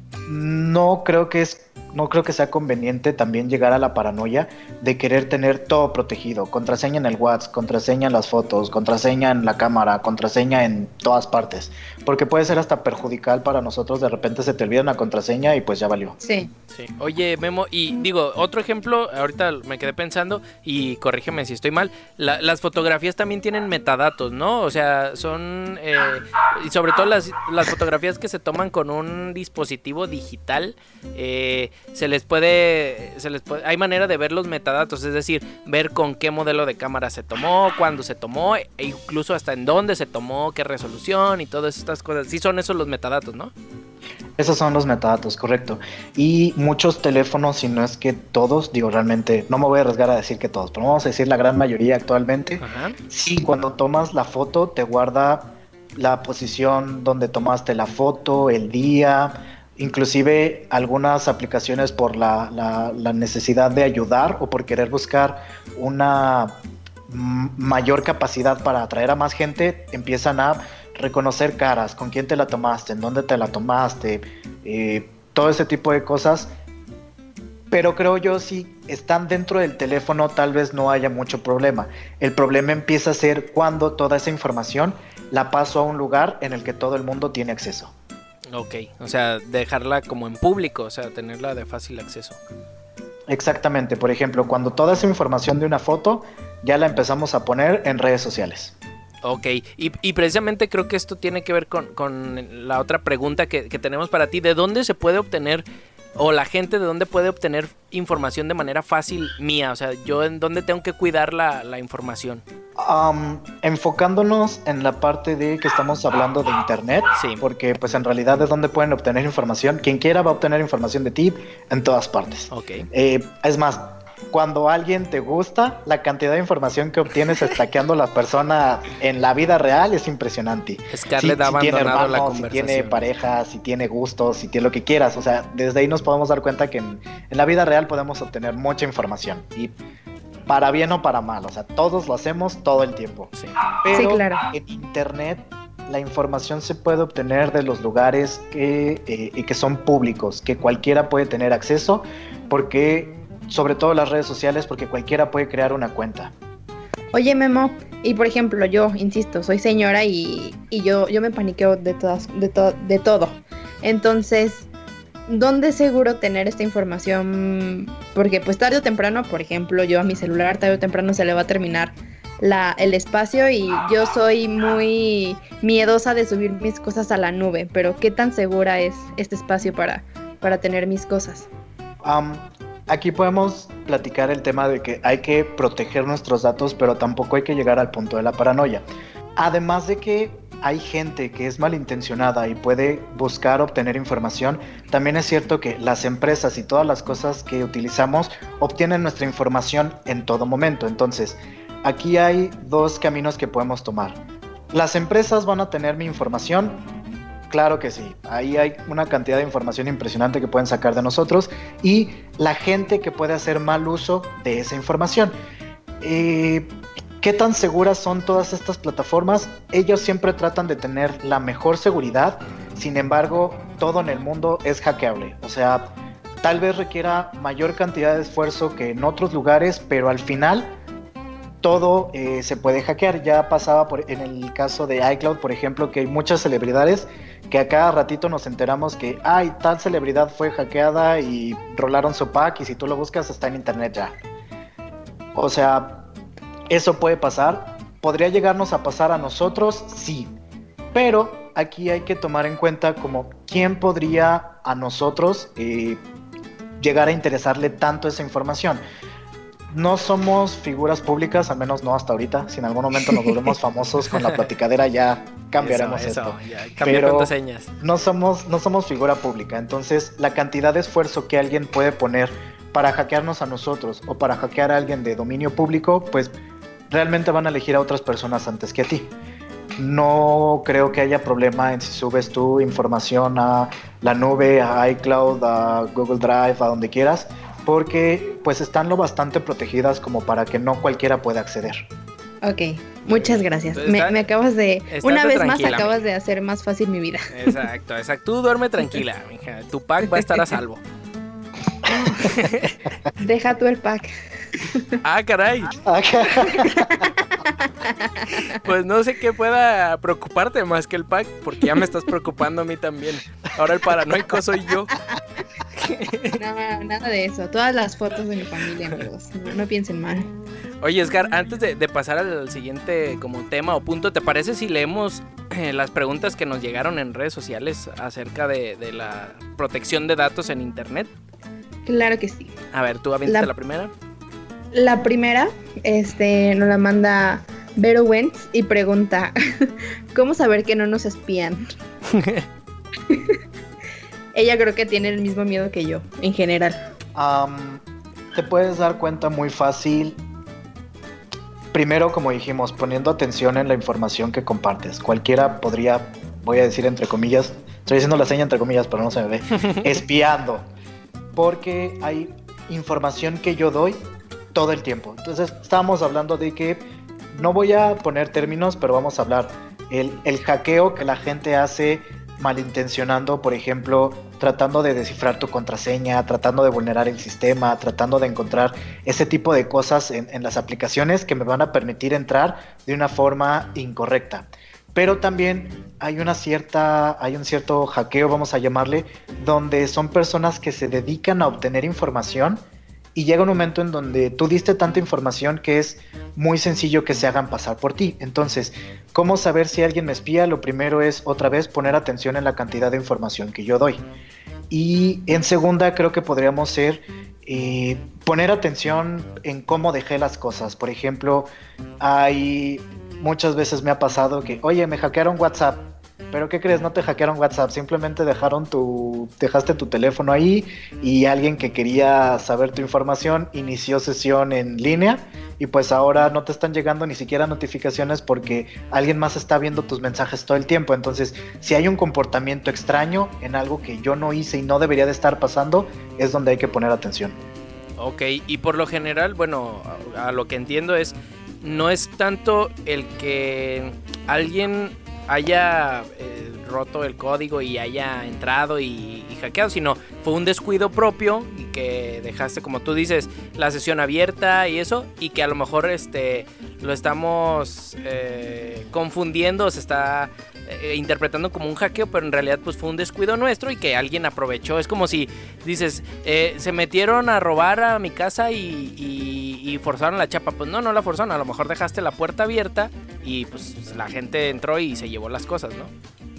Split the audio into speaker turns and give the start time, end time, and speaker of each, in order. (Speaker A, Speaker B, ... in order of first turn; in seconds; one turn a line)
Speaker A: 0.3-16.2
Speaker B: 16.2-16.5
Speaker C: 16.7-43.5
Speaker A: 44.4-66.6
Speaker C: 52.6-53.0
Speaker A: 67.1-76.5
Speaker A: 77.7-87.9
Speaker C: 88.5-92.4
Speaker A: 93.3-98.8
Speaker C: 99.2-105.7
Speaker C: 106.2-112.4
Speaker A: 112.8-139.7
Speaker C: 117.2-117.4
Speaker C: 122.5-122.9
Speaker C: 130.9-133.0
Speaker A: 140.5-156.3
Speaker C: 143.3-143.6
Speaker B: 143.9-144.4
Speaker B: 157.1-164.7
Speaker B: 165.3-181.5
Speaker A: 182.0-188.8
Speaker A: 189.4-204.2
Speaker A: 204.7-206.8
Speaker A: 207.5-215.3
Speaker A: 216.0-230.7
Speaker A: 231.6-244.2
Speaker A: 245.3-246.1
Speaker A: 246.7-250.3
Speaker A: 250.9-256.0
Speaker A: 256.8-258.8
Speaker A: 259.7-276.3
Speaker C: 265.6-267.7
Speaker A: 276.9-279.1
Speaker A: 279.8-291.9
Speaker B: 292.4-297.6
Speaker C: 293.1-294.2
Speaker C: 294.9-296.0
Speaker C: 297.3-300.8
Speaker A: 302.0-302.3
Speaker C: 302.2-302.8
Speaker B: 303.2-305.0
Speaker C: 305.0-305.8
Speaker A: 305.7-307.1
Speaker B: 306.6-308.6
Speaker C: 308.3-315.0
Speaker C: 315.8-316.4
Speaker B: 316.4-320.3
Speaker C: 320.8-331.1
Speaker B: 331.9-332.5
Speaker C: 332.7-333.9
Speaker B: 334.7-341.7
Speaker C: 342.1-342.4
Speaker B: 343.1-343.4
Speaker B: 344.4-346.8
Speaker A: 347.1-347.8
Speaker A: 348.3-350.2
Speaker A: 351.7-360.7
Speaker A: 361.4-364.0
Speaker A: 364.5-392.6
Speaker A: 393.1-404.0
Speaker A: 404.7-411.5
Speaker A: 412.0-437.4
Speaker C: 438.0-475.9